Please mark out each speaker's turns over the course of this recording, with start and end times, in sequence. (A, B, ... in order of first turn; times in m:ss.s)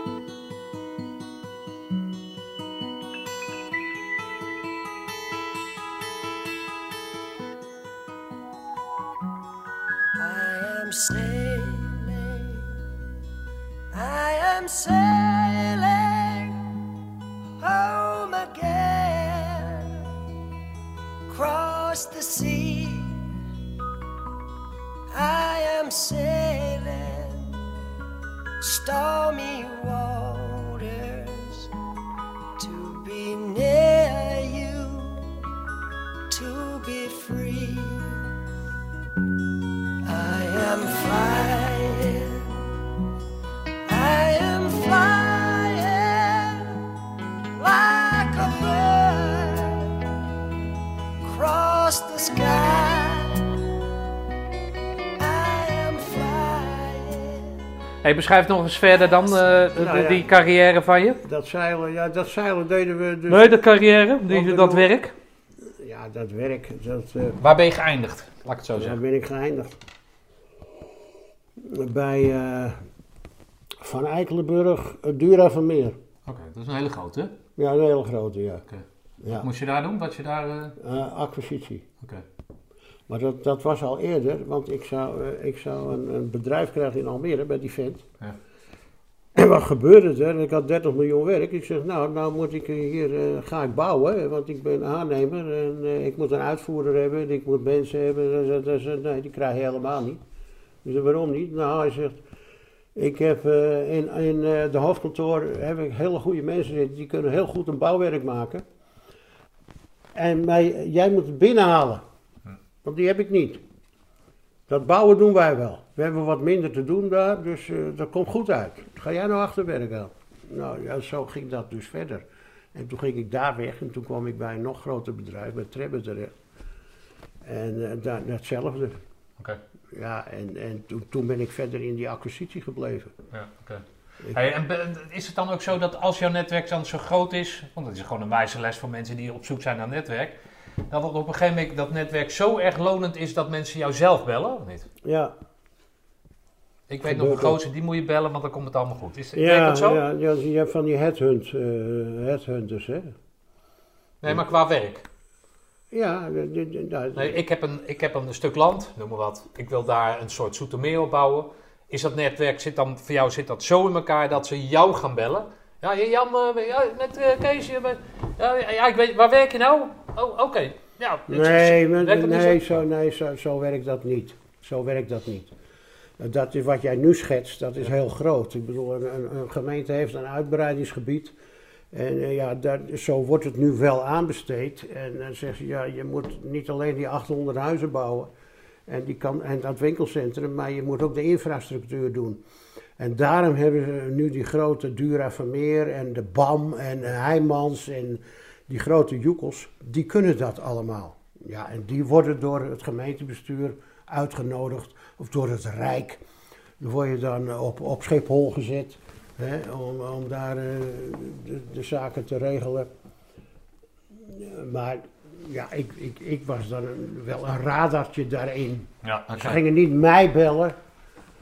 0:10.2-0:12.7 A
0:13.9-0:16.8 A
0:17.6-0:20.0 A
0:21.3-0:23.2 A
0:25.1-0:27.6 A
0:28.6-0:31.7 A
0:32.6-0:35.3 A
0:36.3-0:38.3 A
0:40.0-0:42.6 A
0:43.9-0:46.8 A
0:47.6-0:50.1 A
0:51.2-0:53.6 A
0:55.2-0:57.6 A
0:58.0-1:01.2 B
0:59.8-1:00.4 C
1:01.2-1:03.5 C
1:03.3-1:05.2 B
1:04.3-1:04.9 C
1:05.8-1:07.4 C
1:07.4-1:09.0 B
1:08.8-1:09.8 C
1:11.6-1:12.8 C
1:13.8-1:16.0 C
1:16.3-1:17.3 B
1:17.6-1:18.6 C
1:19.2-1:19.5 C
1:19.4-1:20.8 B
1:20.8-1:21.9 C
1:23.1-1:28.0 C
1:29.4-1:40.2 C
1:40.8-1:42.2 C
1:43.0-1:48.6 C
1:50.1-1:52.0 C
1:52.8-1:53.6 C
1:54.7-2:02.2 C
2:02.7-2:06.3 C
2:07.4-2:09.0 C
2:09.9-2:13.1 C
2:13.3-2:20.4 B
2:20.9-2:24.9 B
2:25.0-2:25.3 C
2:26.9-2:30.0 B
2:27.0-2:27.6 C
2:29.4-2:33.2 C
2:34.2-2:35.0 B
2:35.9-2:37.4 C
2:37.2-2:52.8 B
2:51.3-2:55.5 C
2:56.2-3:01.3 C
3:01.9-3:08.3 C
3:08.9-3:12.4 C
3:13.0-3:26.2 C
3:26.8-3:32.9 C
3:34.2-3:40.8 C
3:39.0-3:39.6 B